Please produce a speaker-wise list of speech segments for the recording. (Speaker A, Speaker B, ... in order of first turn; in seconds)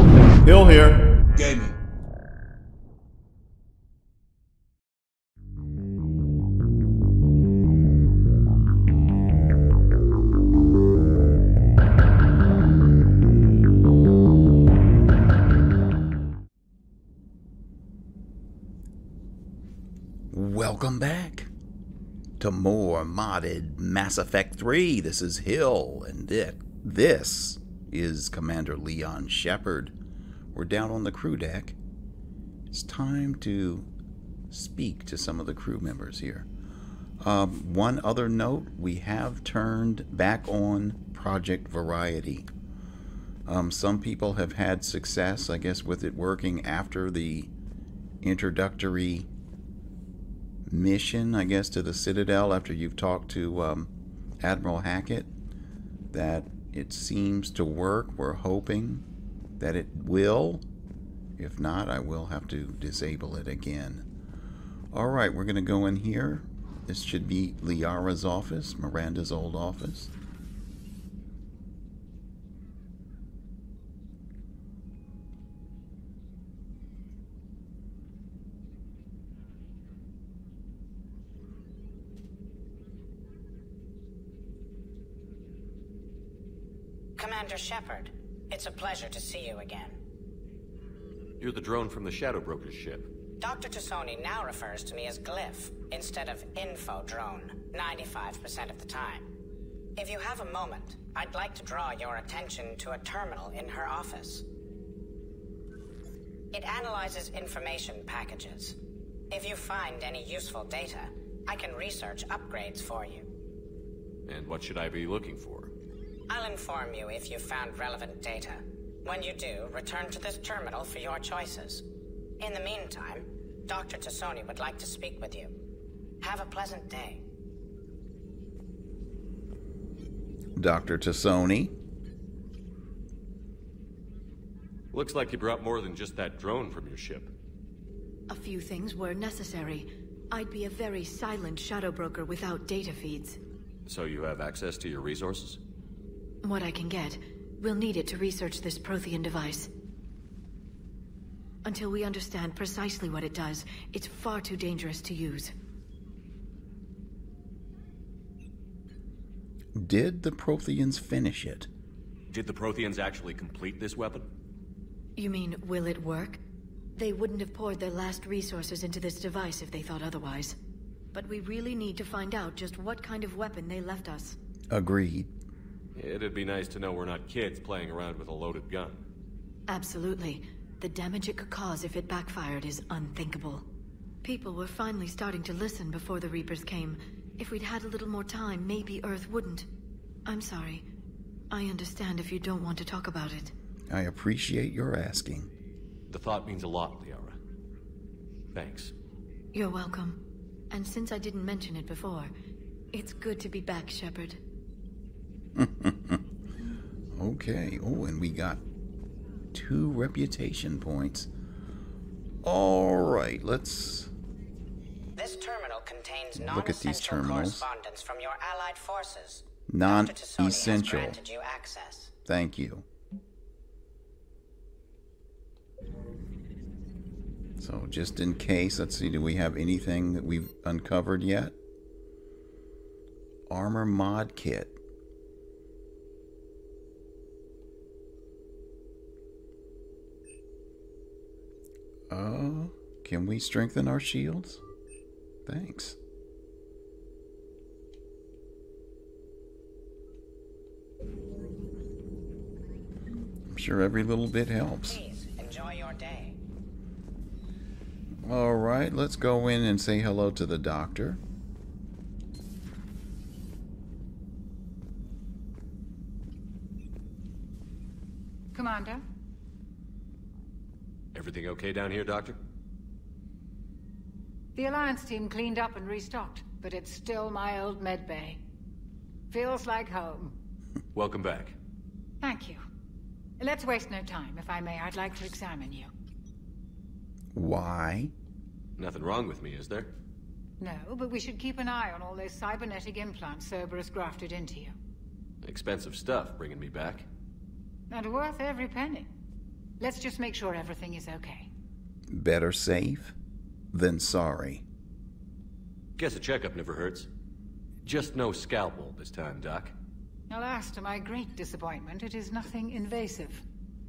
Speaker A: 20.3-21.5, 22.4-29.9, 30.5-31.8, 32.7-33.9, 34.5-36.5, 37.2-42.5, 43.5-47.5, 48.2-49.3, 50.7-55.3, 56.1-59.0, 59.6-60.6, 61.4-64.1, 64.9-70.1, 130.6-131.7, 159.7-161.7, 174.7-175.3, 193.9-195.5, 205.6-206.2, 207.2-208.6, 209.5-211.3, 212.4-214.1, 216.3-217.6, 219.7-221.2, 222.2-222.8, 227.6-231.6, 233.5-234.8, 242.1-244.6, 245.4-246.0, 253.5-255.0, 258.2-261.2, 287.3-288.1, 302.1-303.1, 303.7-304.6
Speaker B: 87.2-89.9, 93.4-99.2, 100.0-104.4, 106.5-108.8, 109.3-113.2, 116.3-121.8, 122.4-125.5, 126.2-127.2, 215.2-222.1, 254.8-256.4
Speaker C: 91.4-93.1, 114.3-115.7, 134.9-137.3, 143.8-145.6, 162.3-164.2, 175.9-179.0, 196.1-197.3, 198.5-198.9, 271.1-272.4, 280.9-281.5, 288.8-289.9, 295.4-297.1, 306.0-307.1, 307.8-309.7
Speaker D: 138.3-143.4, 146.4-149.7, 151.6-155.5, 165.2-166.4, 166.9-170.6, 171.1-174.4, 179.7-183.7, 184.2-189.7, 190.2-190.8, 191.5-193.5, 199.5-202.3, 202.9-204.4
Speaker E: 268.5-269.0, 274.6-278.4, 279.3-280.3, 282.2-282.6, 283.4-285.9, 290.6-294.7, 297.9-299.1, 299.8-301.5, 310.3-313.4